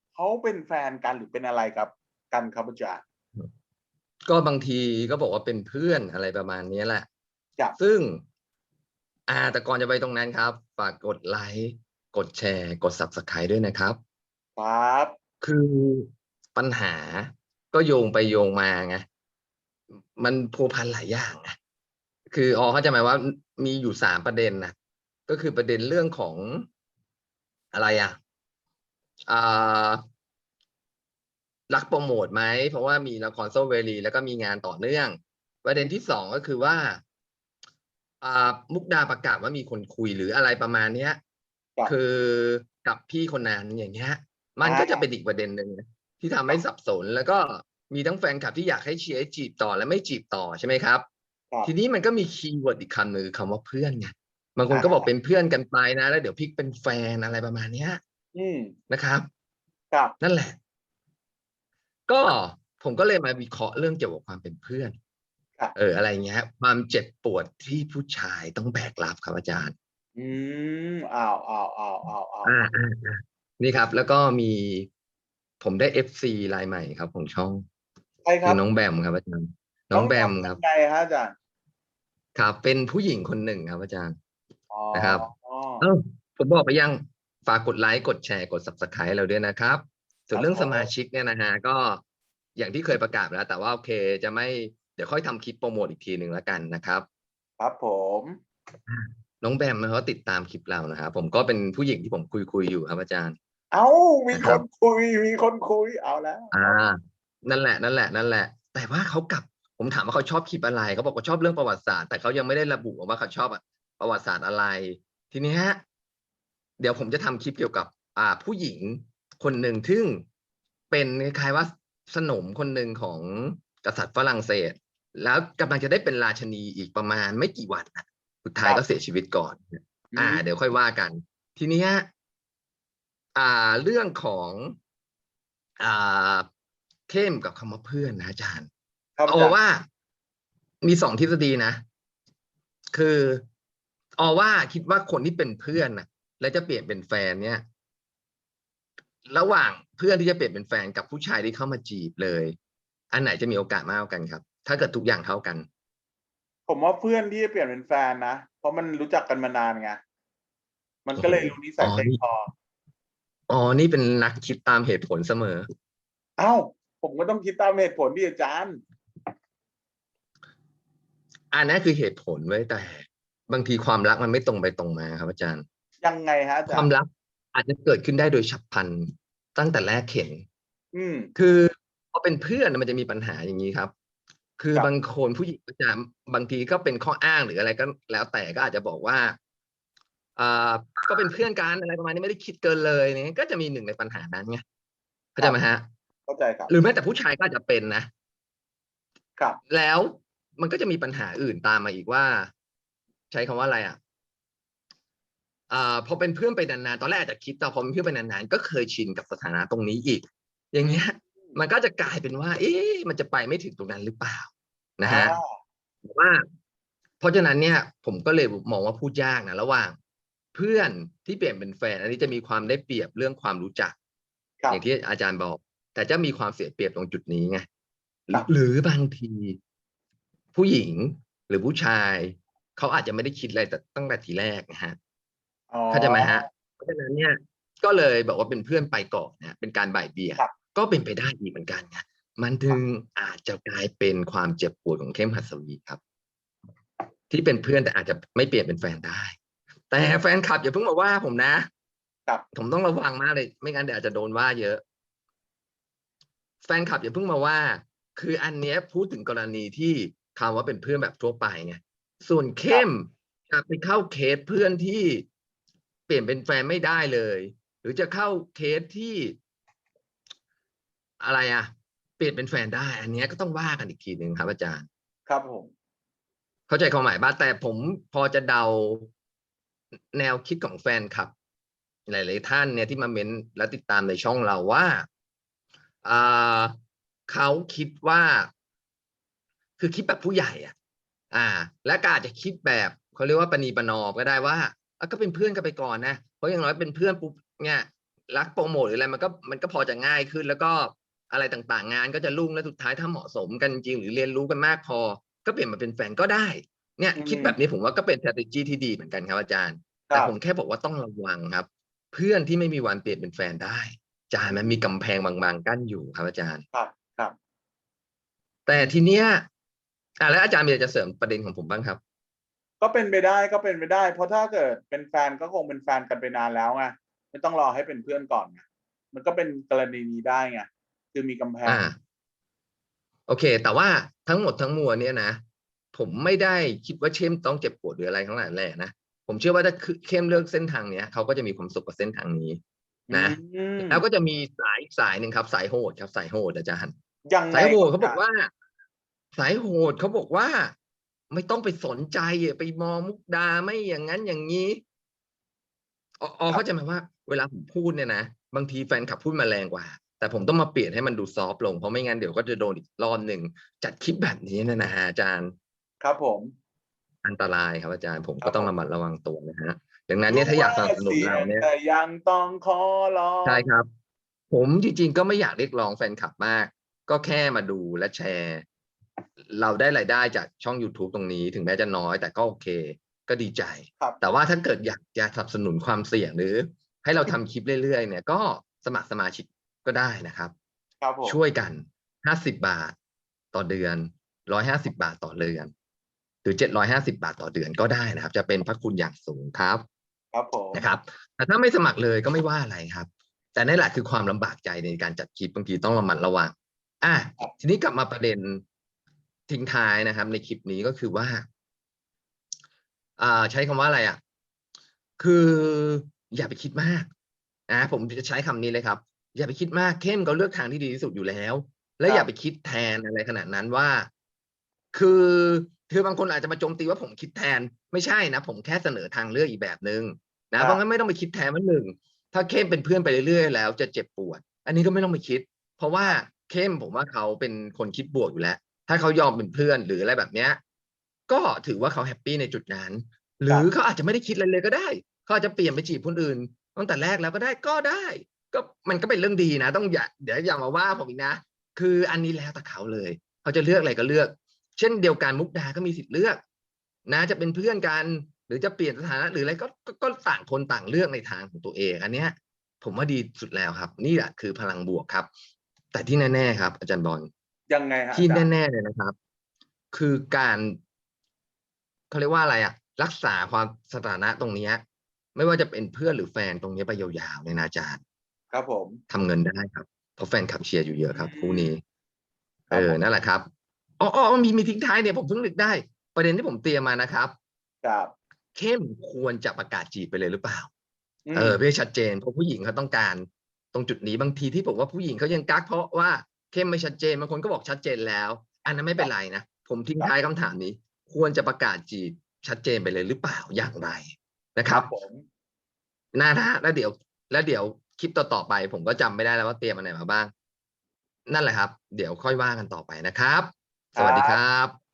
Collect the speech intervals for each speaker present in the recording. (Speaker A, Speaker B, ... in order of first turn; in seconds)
Speaker A: 0.1-3.0, 14.6-15.1, 44.6-45.0, 54.7-55.1, 58.3-58.7, 70.2-72.5, 78.2-78.6, 79.9-81.3, 84.7-85.8, 90.3-90.9, 97.6-98.4, 103.7-106.7, 128.6-128.9, 130.1-130.4, 139.2-139.6, 156.7-160.0, 161.1-162.5, 166.4-168.8, 176.0-176.9, 180.9-181.3, 196.3-196.7, 210.8-211.5, 215.0-215.6, 235.7-236.4, 275.3-275.7, 307.2-307.6, 314.5-314.8, 316.7-317.3, 322.8-331.9, 343.1-344.0, 347.3-348.2, 366.0-366.5, 368.4-368.7, 370.3-373.6, 391.0-391.4, 400.3-400.8, 467.7-468.5, 478.5-479.0, 481.1-481.7, 482.7-483.0, 487.8-488.1, 491.3-491.6, 504.7-505.2, 514.0-514.4
Speaker B: 4.3-7.1, 7.8-8.2, 9.3-14.0, 15.4-19.0, 20.1-21.5, 22.3-24.7, 25.3-26.7, 27.7-28.2, 29.3-30.0, 31.7-37.0, 38.2-41.2, 41.9-51.0, 51.6-58.0, 58.9-59.3, 60.2-60.6, 62.1-64.9, 65.7-69.7, 72.4-74.9, 75.6-77.6, 78.4-80.6, 82.3-84.1, 84.9-85.3, 85.8-92.0, 92.5-97.0, 98.9-103.4, 104.3-104.6, 106.5-115.8, 116.8-120.2, 120.9-132.1, 133.3-134.8, 135.8-136.5, 137.1-138.7, 139.3-139.8, 140.8-141.8, 142.9-143.4, 144.2-147.6, 149.3-152.6, 153.1-155.7, 161.2-162.2, 163.5-165.7, 171.5-175.6, 176.7-180.4, 181.3-183.9, 184.6-189.3, 190.3-194.6, 195.4-195.8, 196.7-198.1, 199.7-202.5, 203.3-204.0, 205.7-215.3, 216.0-216.4, 217.2-219.9, 220.5-223.9, 224.7-227.7, 228.3-229.6, 230.5-234.9, 235.9-246.0, 247.3-249.3, 249.9-251.7, 252.5-254.8, 256.6-265.2, 266.1-269.4, 271.2-274.9, 276.7-279.1, 280.1-281.3, 282.1-285.1, 286.0-286.8, 287.3-288.5, 289.8-290.7, 291.3-316.6, 318.7-319.4, 320.2-322.0, 331.6-332.0, 333.3-335.4, 335.9-342.6, 343.1-346.9, 347.5-348.5, 349.3-350.7, 351.3-354.8, 356.2-365.5, 367.2-371.7, 373.4-373.9, 374.5-378.6, 379.4-390.5, 391.2-392.9, 393.5-395.7, 396.4-399.8, 400.7-408.6, 409.5-411.4, 413.2-414.2, 415.2-417.1, 417.7-424.1, 424.9-440.6, 441.3-456.4, 457.1-465.3, 465.9-467.3, 468.1-469.1, 469.9-470.8, 472.1-474.8, 475.3-478.0, 479.1-481.8, 482.7-483.5, 484.0-487.3, 488.5-490.7, 491.3-504.9, 506.1-510.3, 511.3-514.8